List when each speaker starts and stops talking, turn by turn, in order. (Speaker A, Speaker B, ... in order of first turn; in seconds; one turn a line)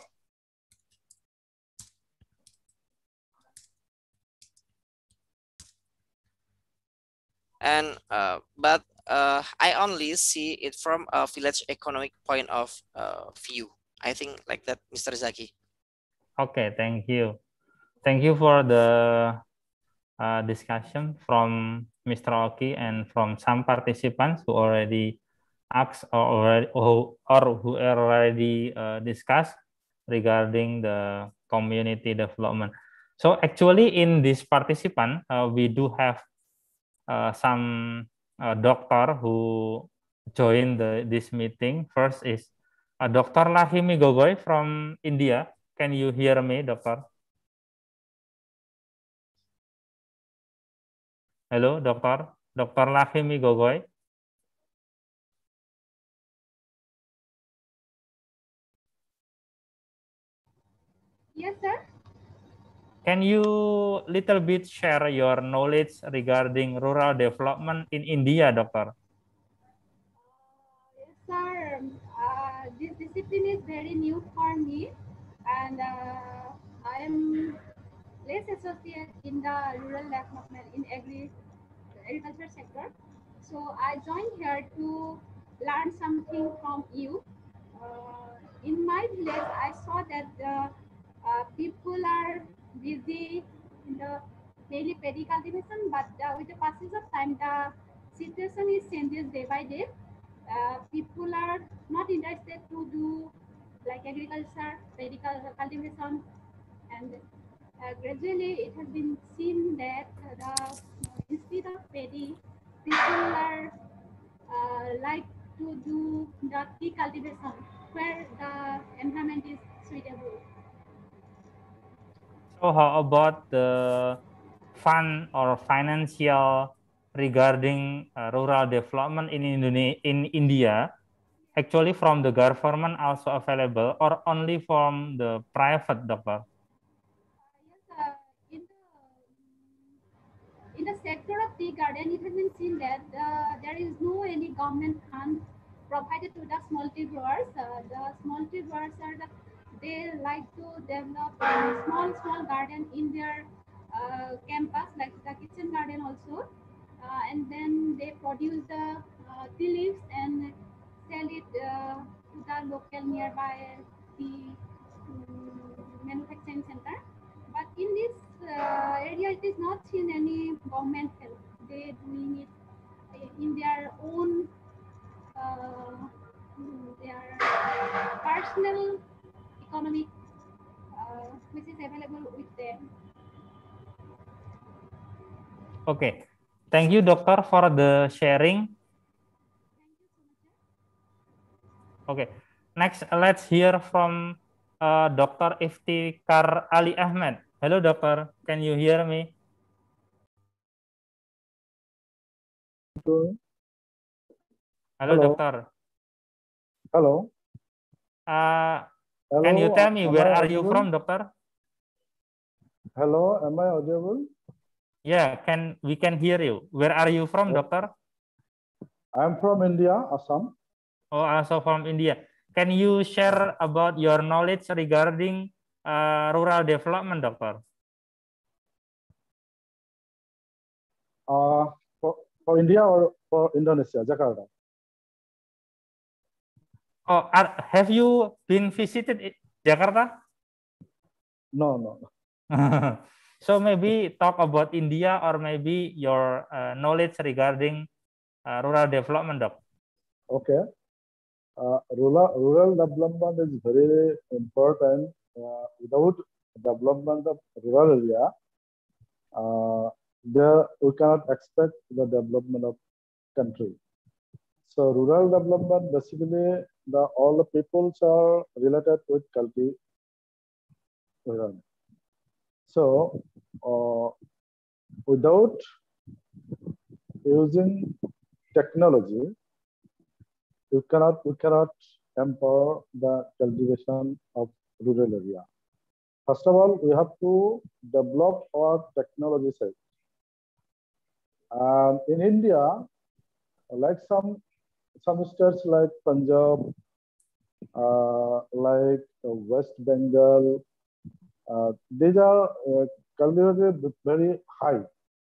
Speaker A: 7.6-15.5
Speaker B: 16.4-17.4
Speaker B: 18.1-19.4
Speaker B: 20.2-25.1
Speaker B: 25.8-29.6
Speaker B: 30.1-36.2
Speaker B: 37.1-42.5
Speaker B: 43.0-47.0
Speaker B: 51.5-53.8
Speaker C: 61.4-61.8
Speaker B: 63.0-68.9
Speaker C: 70.2-74.9
Speaker C: 75.5-77.6
Speaker C: 78.2-81.3
Speaker C: 82.1-87.2
Speaker C: 87.8-99.9
Speaker C: 100.5-103.3
Speaker C: 103.8-106.2
Speaker C: 106.9-107.2
Speaker C: 107.8-113.7
Speaker C: 114.5-120.4
Speaker B: 122.6-124.2
Speaker B: 124.8-130.8
Speaker B: 131.6-136.4
Speaker C: 137.4-140.0
Speaker C: 140.8-156.5
Speaker C: 157.0-160.6
Speaker C: 161.1-167.0
Speaker C: 167.5-172.5
Speaker C: 173.2-174.5
Speaker C: 175.4-179.0
Speaker C: 179.6-180.1
Speaker C: 181.0-182.9
Speaker B: 185.9-186.2
Speaker B: 186.7-188.7
Speaker C: 189.8-190.6
Speaker B: 192.1-199.3
Speaker D: 203.0-203.4
Speaker B: 205.0-205.6
Speaker D: 205.1-205.4
Speaker D: 206.9-207.3
Speaker B: 208.3-208.9
Speaker D: 209.3-210.9
Speaker B: 209.4-211.3
Speaker D: 213.0-214.3
Speaker B: 215.1-217.9
Speaker D: 219.2-220.5
Speaker B: 221.1-227.6
Speaker D: 231.3-234.5
Speaker B: 237.1-240.1
Speaker D: 241.6-242.0
Speaker B: 242.5-247.9
Speaker B: 248.5-249.6
Speaker D: 250.3-250.6
Speaker D: 251.6-258.3
Speaker D: 259.4-262.8
Speaker D: 263.4-263.8
Speaker D: 264.7-269.8
Speaker D: 271.3-271.6
Speaker D: 272.7-274.1
Speaker D: 275.1-275.6
Speaker D: 277.3-277.9
Speaker D: 278.6-279.3
Speaker D: 280.7-285.5
Speaker D: 286.3-289.8
Speaker D: 291.6-292.9
Speaker D: 293.8-294.4
Speaker D: 295.0-296.7
Speaker D: 297.8-300.6
Speaker D: 301.5-304.9